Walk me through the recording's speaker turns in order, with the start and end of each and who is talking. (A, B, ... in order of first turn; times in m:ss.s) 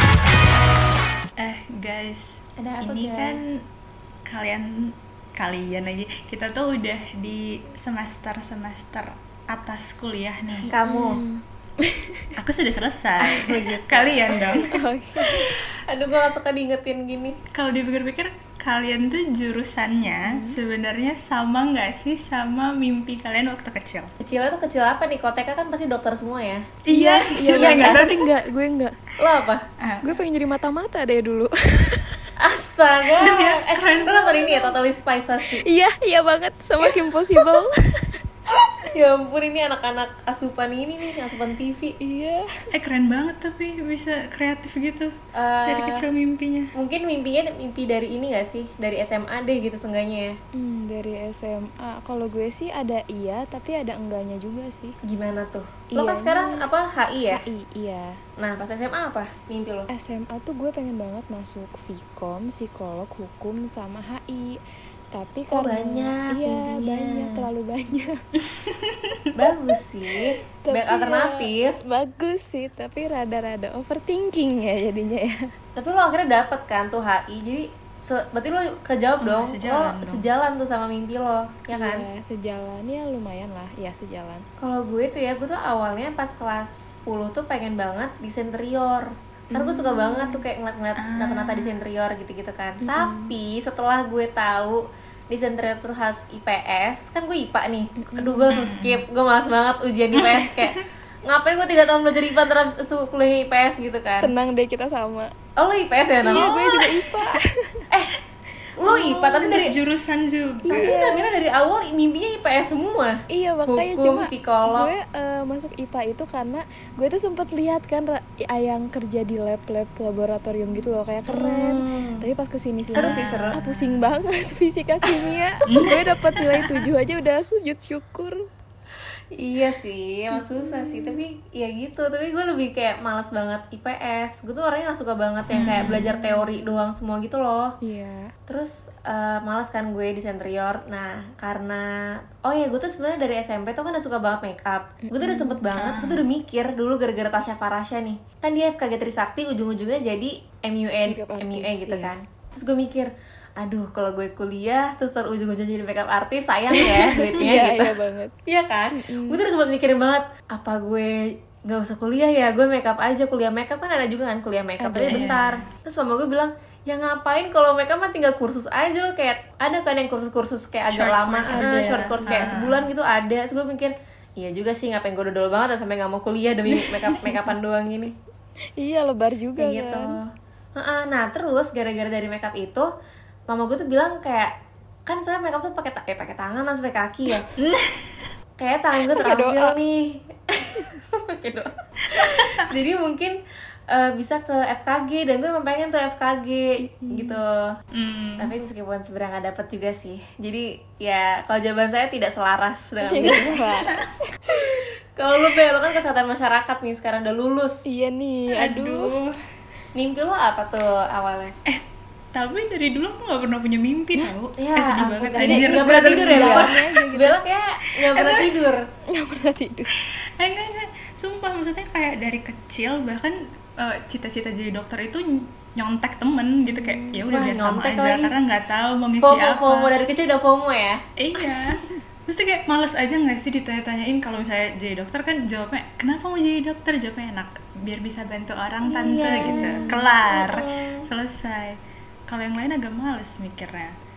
0:01.4-0:02.2 A
0:02.6-0:03.5 B
0:02.8-0:03.5 A
0:04.3-0:04.7 A
0:05.4-0:10.7 A
0:10.7-0:11.2 B
0:10.7-0:12.3 C
0:12.4-0:14.8 A
0:13.2-0:14.4 B
0:14.7-0:15.5 C
0:15.2-0:17.4 B
0:17.5-0:24.1 A
0:20.2-0:20.6 C
0:24.2-0:26.6 B
0:26.9-0:28.3 A
0:26.9-0:29.0 C
0:27.5-0:28.0 B
0:29.2-0:29.6 B
0:29.8-0:30.2 A
0:30.0-0:32.2 C
0:32.4-0:35.6 B
0:33.2-0:34.7 A
0:35.5-0:38.2 C
0:38.7-0:42.0 B
0:42.0-0:42.4 C
0:42.7-0:45.1 A
0:45.3-0:46.0 B
0:45.7-0:46.7 A
0:46.8-0:50.3 B
0:50.6-0:55.0 C
0:55.1-0:57.4 B
0:55.9-0:56.6 C
0:57.3-0:58.1 C
0:58.4-0:59.9 B
0:59.9-1:04.6 C
1:05.1-1:08.1 C
1:05.5-1:07.5 B
1:08.6-1:09.1 A
1:09.3-1:11.7 B
1:10.6-1:15.5 C
1:15.8-1:22.1 B
1:19.2-1:20.3 A
1:21.7-1:24.4 C
1:24.6-1:40.8 B
1:29.5-1:30.4 C
1:31.0-1:31.7 A
1:32.8-1:33.3 C
1:38.0-1:38.5 C
1:38.5-1:39.0 A
1:40.1-1:40.8 A
1:41.3-1:44.3 B
1:44.2-1:45.3 C
1:45.6-1:46.5 B
1:46.2-1:47.8 C
1:46.3-1:47.3 A
1:48.8-1:49.8 B
1:48.8-1:51.0 A
1:50.7-1:51.3 C
1:50.7-1:54.9 B
1:53.3-2:08.4 C
2:01.3-2:02.2 B
2:02.9-2:03.6 B
2:02.9-2:03.8 A
2:05.7-2:06.8 A
2:09.4-2:17.7 B
2:10.3-2:11.2 C
2:15.5-2:16.0 A
2:15.8-2:16.5 C
2:17.8-2:18.3 C
2:18.5-2:21.8 B
2:22.4-2:37.9 B
2:25.0-2:25.6 C
2:25.7-2:26.2 A
2:31.1-2:32.1 C
2:36.7-2:38.3 C
2:38.5-2:58.1 B
2:39.0-2:39.4 C
2:44.8-2:45.3 C
2:45.0-2:45.7 A
2:50.9-2:52.8 A
2:51.5-2:52.5 C
2:57.0-2:57.4 C
2:58.8-3:00.2 C
2:59.6-3:00.2 B
3:00.8-3:02.9 B
3:03.5-3:04.5 B
3:05.0-3:07.5 B
3:07.6-3:08.2 A
3:08.6-3:13.3 B
3:09.1-3:09.8 C
3:12.1-3:12.5 A
3:13.9-3:17.7 B
3:17.0-3:17.4 C
3:17.9-3:18.5 A
3:18.4-3:23.7 B
3:23.0-3:24.2 C
3:23.1-3:24.1 A
3:24.5-3:27.8 B
3:27.9-3:29.1 C
3:28.5-3:29.3 A
3:29.9-3:31.5 B
3:32.3-3:36.8 A
3:34.6-3:38.8 B
3:35.2-3:37.4 C
3:38.1-3:38.5 A
3:39.1-3:39.9 C
3:40.4-3:49.9 A
3:46.7-3:47.3 C
3:47.3-3:48.3 B
3:49.2-3:51.0 B
3:51.2-4:01.7 A
3:58.8-4:01.0 B
3:59.4-4:00.0 C
4:02.3-4:03.9 A